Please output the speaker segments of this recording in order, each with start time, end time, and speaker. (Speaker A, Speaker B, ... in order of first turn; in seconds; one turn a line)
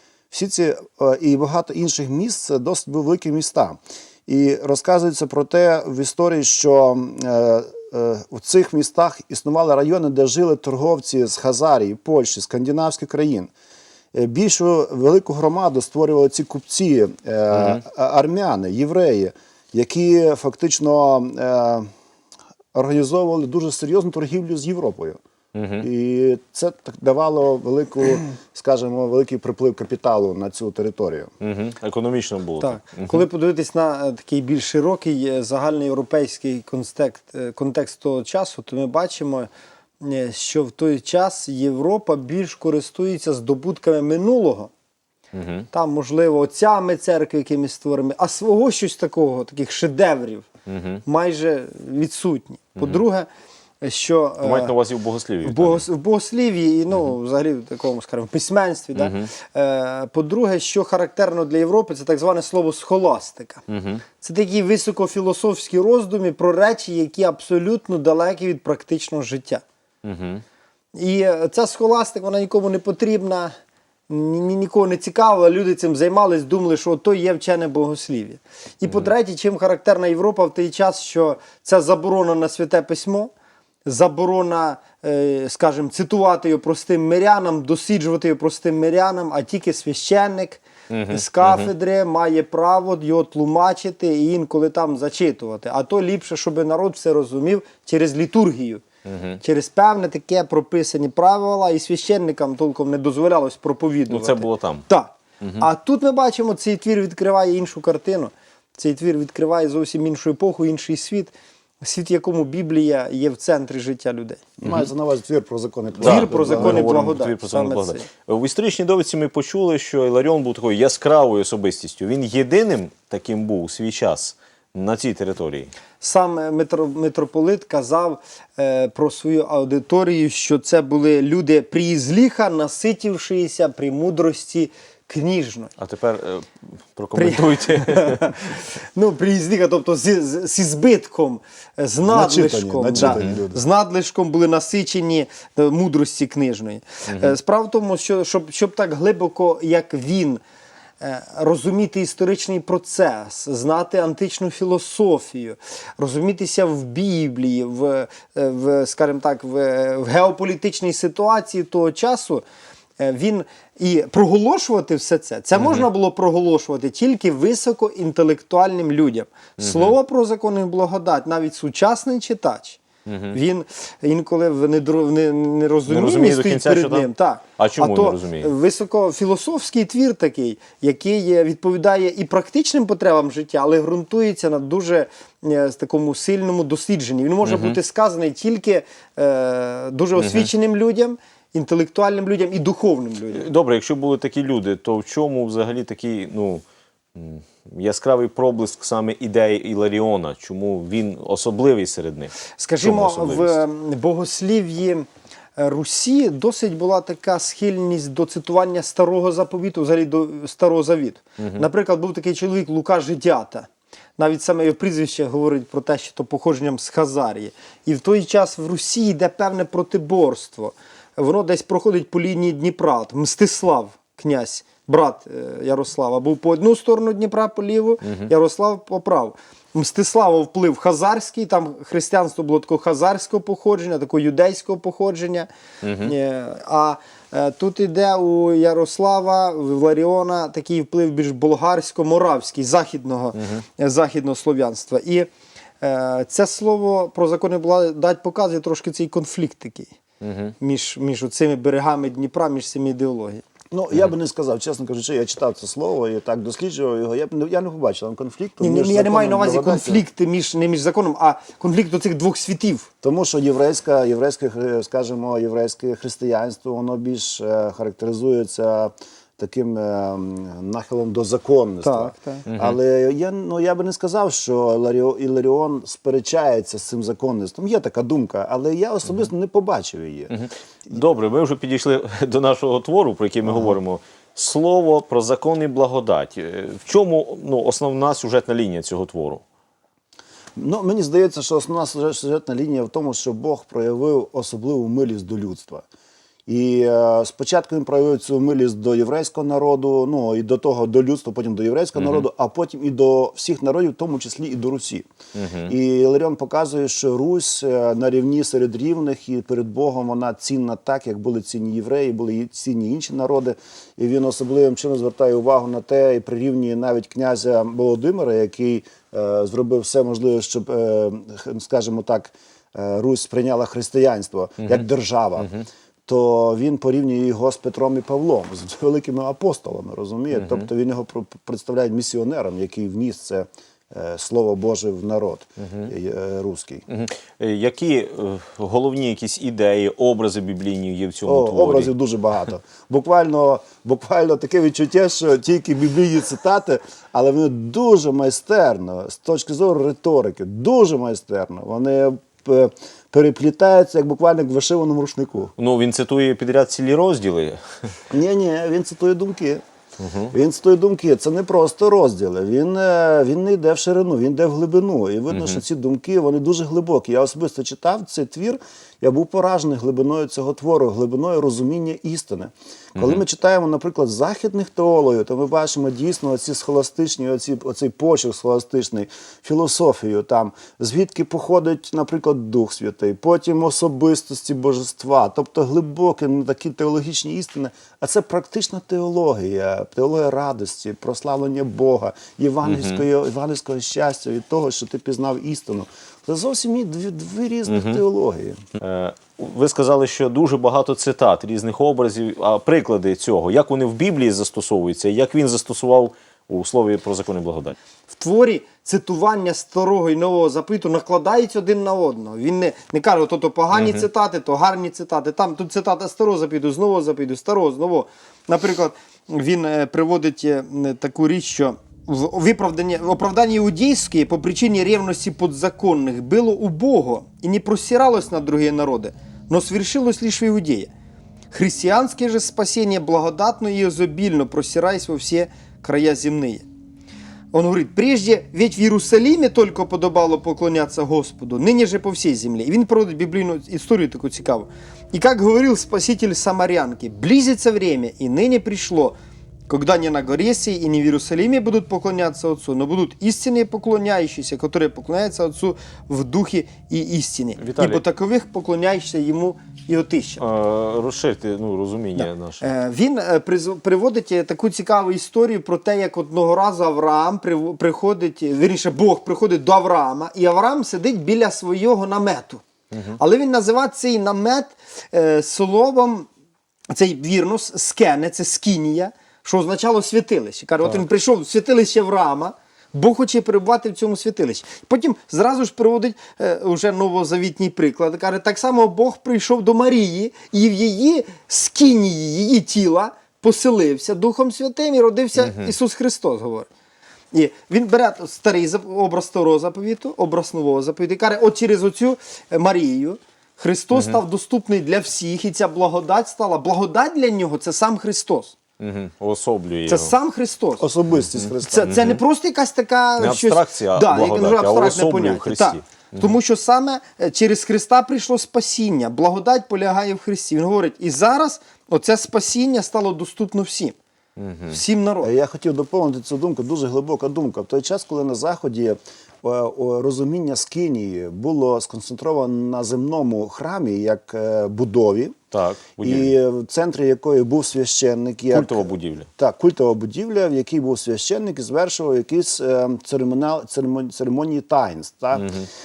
Speaker A: 0.3-13.5
Speaker A: 14.1-21.9
Speaker B: 17.5-17.8
Speaker A: 22.7-25.2
Speaker B: 25.5-25.9
Speaker A: 25.8-31.3
Speaker B: 31.4-33.3
Speaker C: 32.6-39.5
Speaker C: 40.0-44.7
Speaker B: 45.3-45.7
Speaker C: 45.7-50.5
Speaker B: 50.6-51.0
Speaker C: 51.0-53.3
Speaker B: 52.8-53.0
Speaker C: 53.8-54.7
Speaker B: 54.4-55.8
Speaker C: 55.4-63.6
Speaker B: 58.9-59.3
Speaker B: 63.7-64.0
Speaker C: 64.2-69.6
Speaker B: 70.0-70.4
Speaker C: 71.0-73.5
Speaker C: 74.1-83.3
Speaker B: 78.8-79.1
Speaker C: 83.8-98.8
Speaker B: 90.9-91.7
Speaker B: 99.0-99.4
Speaker C: 99.4-114.4
Speaker B: 104.1-104.9
Speaker B: 105.4-105.7
Speaker A: 114.6-116.9
Speaker B: 116.0-125.7
Speaker C: 116.0-118.1
Speaker C: 126.0-135.7
Speaker B: 135.8-138.4
Speaker C: 137.1-150.4
Speaker A: 142.1-143.6
Speaker B: 142.9-143.4
Speaker B: 147.1-147.4
Speaker C: 151.0-162.4
Speaker C: 163.0-172.8
Speaker B: 165.6-165.8
Speaker B: 169.6-169.9
Speaker B: 173.1-173.4
Speaker C: 173.3-193.5
Speaker B: 175.9-178.5
Speaker B: 187.4-187.8
Speaker B: 190.2-190.5
Speaker B: 193.3-196.6
Speaker B: 197.1-203.6
Speaker C: 202.6-235.5
Speaker B: 211.4-211.7
Speaker B: 228.0-228.3
Speaker B: 235.8-236.1
Speaker C: 236.0-245.3
Speaker B: 243.3-243.6
Speaker C: 245.8-249.9
Speaker B: 250.2-250.5
Speaker C: 250.6-253.4
Speaker A: 253.7-260.0
Speaker C: 258.6-262.9
Speaker A: 263.0-280.3
Speaker C: 271.8-272.4
Speaker B: 272.5-272.8
Speaker B: 280.3-289.4
Speaker A: 283.5-283.7
Speaker A: 290.6-295.8
Speaker A: 296.5-305.1
Speaker B: 301.9-302.2
Speaker B: 305.3-305.7
Speaker A: 305.7-325.5
Speaker B: 325.4-325.6
Speaker A: 326.1-336.8
Speaker B: 330.3-330.7
Speaker B: 335.6-335.9
Speaker B: 336.9-341.9
Speaker A: 341.2-355.5
Speaker B: 355.6-357.9
Speaker A: 358.1-359.6
Speaker B: 360.0-360.3
Speaker A: 360.3-398.6
Speaker B: 365.3-365.6
Speaker B: 372.9-373.2
Speaker B: 392.6-393.0
Speaker B: 397.7-398.0
Speaker B: 398.8-407.8
Speaker C: 408.1-430.9
Speaker B: 413.7-414.0
Speaker C: 431.5-436.6
Speaker C: 437.5-449.1
Speaker C: 449.7-460.4
Speaker B: 457.6-458.0
Speaker B: 460.4-462.6
Speaker C: 462.1-472.6
Speaker B: 472.9-473.2
Speaker C: 473.2-476.3
Speaker C: 476.9-496.7
Speaker B: 495.4-495.7
Speaker C: 497.3-508.6
Speaker B: 503.9-504.2
Speaker B: 508.8-510.1
Speaker C: 509.9-510.9
Speaker A: 510.8-512.0
Speaker B: 511.1-512.2
Speaker C: 511.7-524.0
Speaker B: 513.2-516.4
Speaker B: 524.4-524.8
Speaker C: 524.7-525.3
Speaker A: 525.2-535.4
Speaker B: 535.5-536.3
Speaker A: 536.0-545.5
Speaker B: 538.5-539.3
Speaker B: 545.3-545.7